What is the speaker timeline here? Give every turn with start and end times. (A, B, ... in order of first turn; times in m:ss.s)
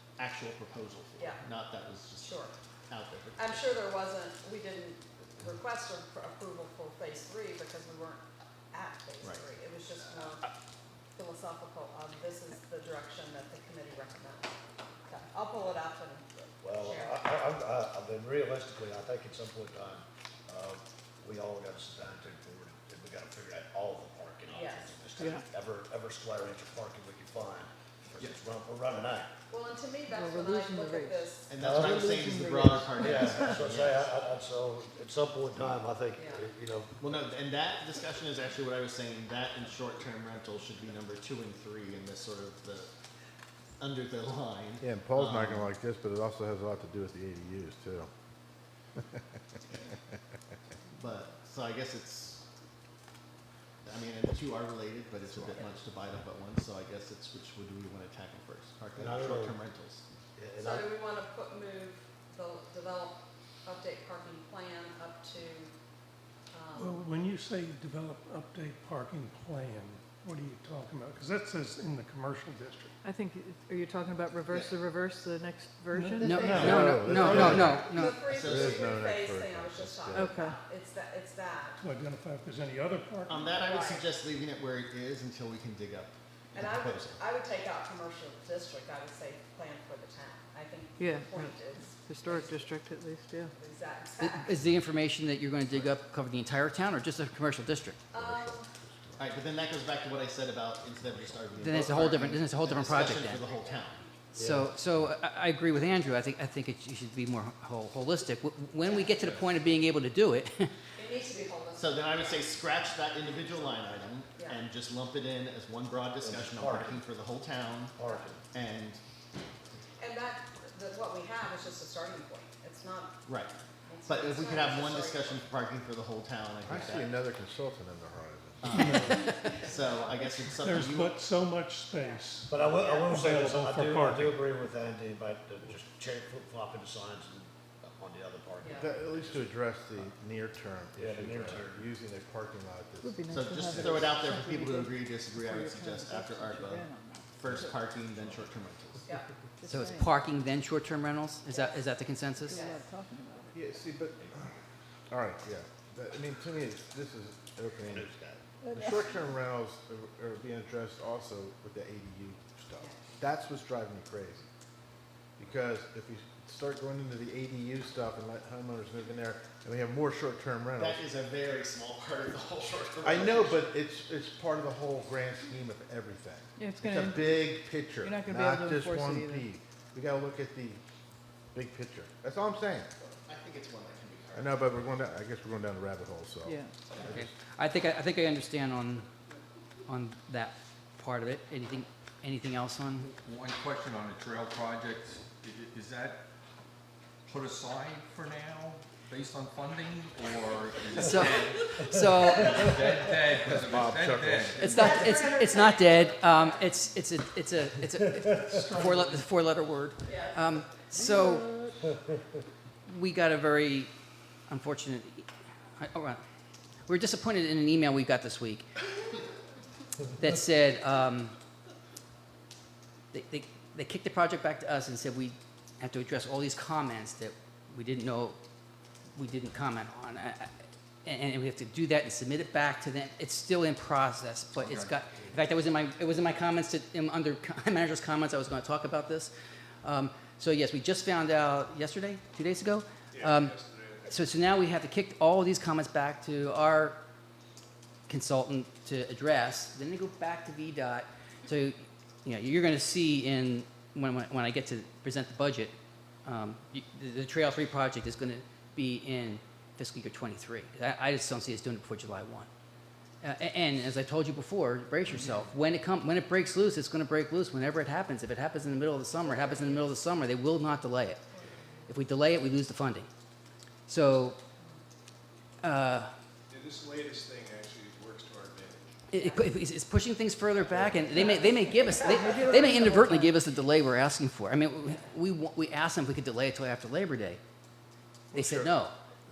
0:00.2-0:02.4 A
0:01.2-0:01.4 B
0:02.2-0:02.5 B
0:02.9-0:03.7 A
0:03.4-0:10.5 B
0:09.2-0:09.5 A
0:10.1-0:10.4 A
0:11.1-0:14.6 B
0:15.1-0:17.2 B
0:16.6-0:29.4 C
0:24.5-0:24.9 B
0:25.2-0:25.4 D
0:29.5-0:31.5 B
0:30.1-0:33.5 D
0:31.5-0:34.1 A
0:31.5-0:32.4 C
0:33.0-0:37.1 C
0:36.2-0:36.4 B
0:37.0-0:42.9 A
0:43.8-0:45.7 A
0:44.8-0:48.1 E
0:51.0-0:52.4 A
0:53.8-1:00.0 A
0:55.3-0:55.6 E
0:58.9-0:59.6 C
1:00.4-1:01.0 C
1:00.6-1:05.7 B
1:06.5-1:07.0 B
1:06.8-1:13.0 F
1:13.0-1:16.7 D
1:15.9-1:17.4 F
1:16.2-1:18.2 G
1:16.4-1:20.4 E
1:17.0-1:17.6 A
1:17.4-1:21.8 B
1:18.2-1:18.9 A
1:20.1-1:20.6 D
1:21.8-1:23.6 F
1:23.2-1:27.2 A
1:23.6-1:24.1 B
1:26.5-1:32.7 B
1:31.0-1:33.5 D
1:33.5-1:34.5 B
1:34.2-1:38.0 G
1:38.1-1:38.7 B
1:38.1-1:39.4 E
1:39.2-1:44.0 A
1:41.0-1:41.4 E
1:41.6-1:43.4 G
1:42.9-1:43.4 B
1:44.3-1:44.7 C
1:44.3-1:50.7 G
1:48.8-1:49.1 B
1:51.0-1:52.8 B
1:51.8-1:59.0 A
1:54.4-1:54.6 B
1:56.2-1:57.1 C
1:57.9-1:58.4 C
2:00.0-2:03.2 B
2:03.2-2:03.5 A
2:03.8-2:05.5 B
2:04.1-2:07.1 A
2:06.6-2:09.0 E
2:08.6-2:11.2 A
2:08.7-2:09.3 F
2:09.1-2:10.2 B
2:10.3-2:14.4 F
2:12.5-2:20.1 C
2:18.6-2:18.9 B
2:18.8-2:23.3 E
2:21.0-2:21.9 C
2:23.0-2:27.3 D
2:23.3-2:29.1 A
2:29.6-2:30.2 D
2:29.6-2:32.7 G
2:31.5-2:31.8 B
2:32.4-2:33.6 D
2:32.4-2:32.8 B
2:33.5-2:34.5 E
2:35.1-2:38.1 E
2:37.8-2:38.4 C
2:38.6-2:39.0 D
2:38.7-2:44.5 E
2:45.4-2:51.0 E
2:50.8-2:53.7 A
2:53.0-3:00.8 E
2:56.6-2:59.5 D
3:01.5-3:02.9 E
3:03.3-3:04.6 A
3:04.3-3:07.3 E
3:06.4-3:06.7 D
3:07.0-3:09.1 G
3:09.9-3:13.1 G
3:13.0-3:16.2 H
3:17.2-3:21.6 H
3:21.0-3:22.8 G
3:22.6-3:24.6 H
3:23.4-3:25.0 E
3:24.6-3:31.5 G
3:24.6-3:26.7 B
3:28.3-3:29.3 H
3:30.0-3:30.5 B
3:31.0-3:31.9 C
3:32.9-3:33.9 G
3:34.5-3:35.2 G
3:35.8-3:36.2 G
3:36.9-3:38.7 G
3:40.2-3:41.3 G
3:43.1-3:48.4 G
3:49.2-3:50.5 G
3:51.0-3:59.3 G
3:54.6-3:55.0 H
3:59.8-4:07.0 G
4:03.1-4:04.2 I
4:08.1-4:15.7 G
4:16.2-4:22.5 G
4:23.2-4:31.2 G
4:31.9-4:33.1 G
4:33.9-4:34.4 G
4:35.6-4:36.1 G
4:36.5-4:39.0 I
4:39.1-4:47.4 G
4:39.1-4:39.5 B
4:40.7-4:41.3 I
4:42.0-4:43.3 D
4:48.3-4:48.8 E
4:48.3-4:48.9 G